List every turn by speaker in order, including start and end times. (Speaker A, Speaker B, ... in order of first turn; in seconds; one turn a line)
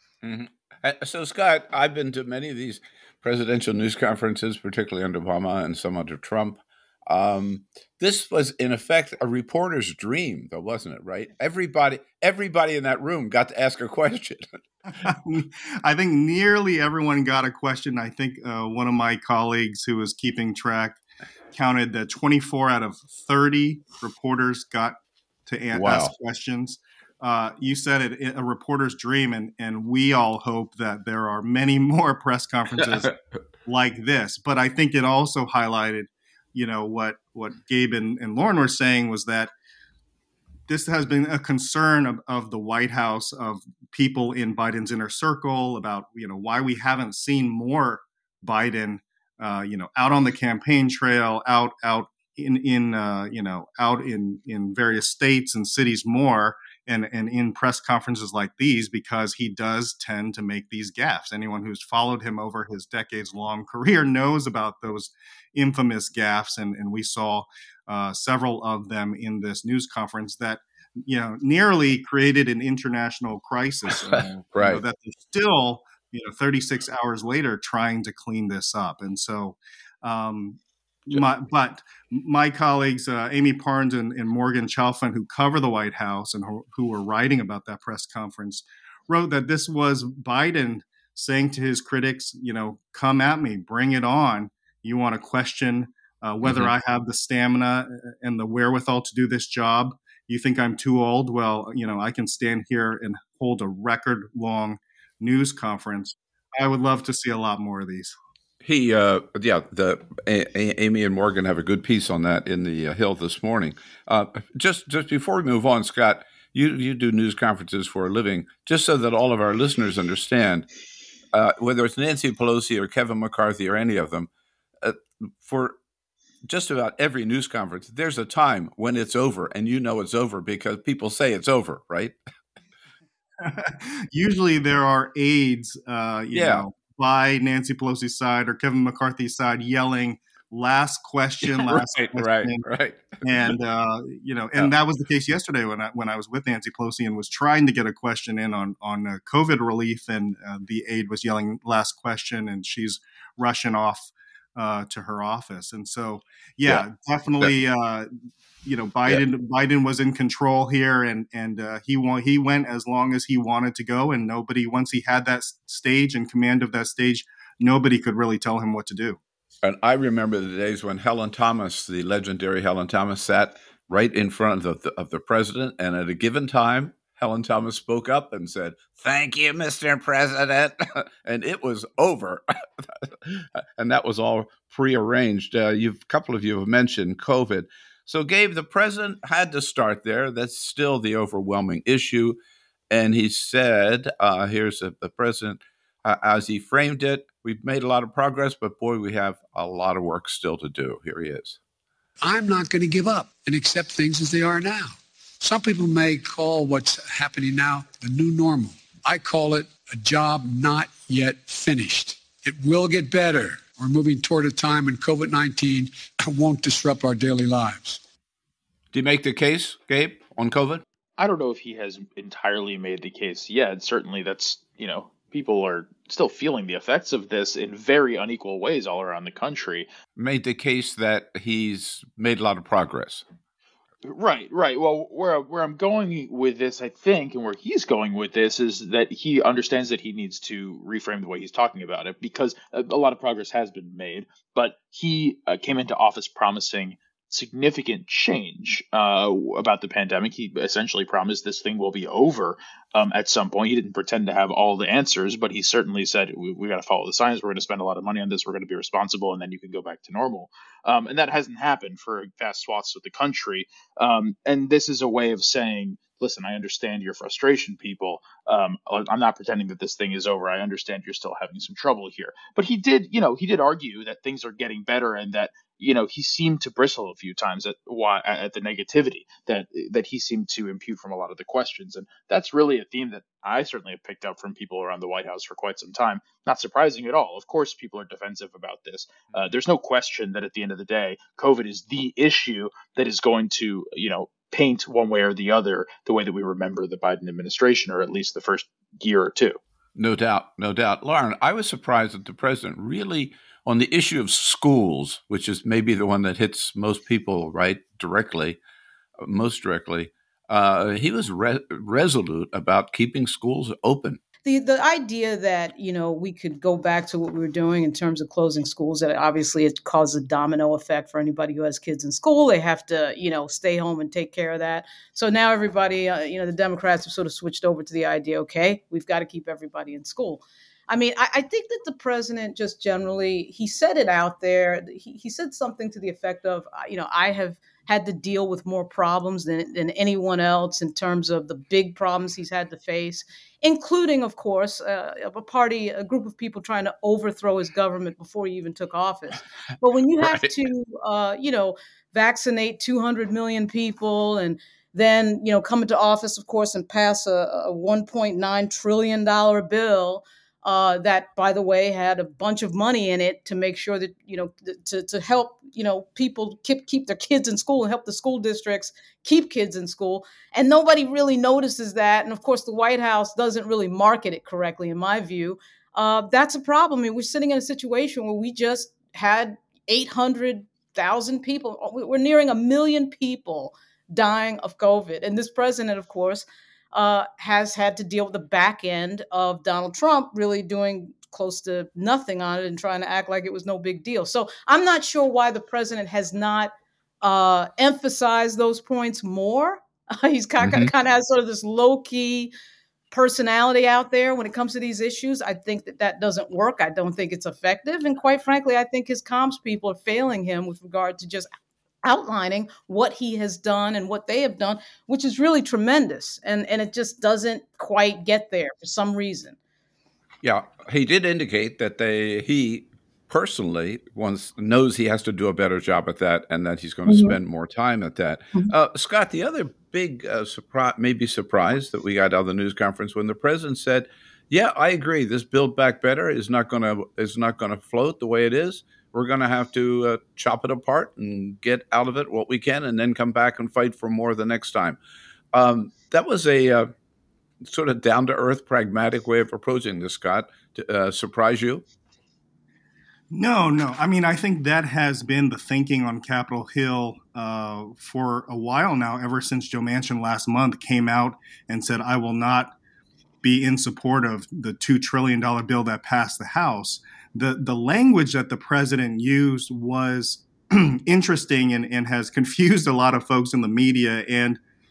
Speaker A: 0.2-14.6
Speaker B: 15.0-21.0
Speaker B: 21.5-33.1
Speaker A: 25.7-26.1
Speaker B: 33.7-39.5
Speaker B: 40.7-108.1
Speaker A: 74.0-74.8
Speaker A: 96.4-96.7
Speaker A: 108.6-120.7
Speaker A: 121.3-124.3
Speaker A: 124.8-125.8
Speaker A: 126.5-132.2
Speaker B: 133.4-142.7
Speaker A: 136.3-136.7
Speaker A: 141.5-143.5
Speaker B: 143.2-158.1
Speaker B: 158.6-169.2
Speaker A: 169.6-192.4
Speaker A: 192.9-201.6
Speaker C: 202.2-218.0
Speaker A: 218.9-220.8
Speaker D: 221.2-229.9
Speaker A: 230.2-233.2
Speaker D: 234.0-299.6
Speaker A: 300.0-308.6
Speaker A: 309.2-314.2
Speaker E: 314.4-402.5
Speaker A: 350.2-350.5
Speaker A: 400.6-400.9
Speaker E: 403.1-411.5
Speaker E: 412.0-419.6
Speaker A: 420.4-445.0
Speaker A: 445.5-446.9
Speaker A: 447.6-451.8
Speaker B: 453.3-462.8
Speaker B: 463.4-474.6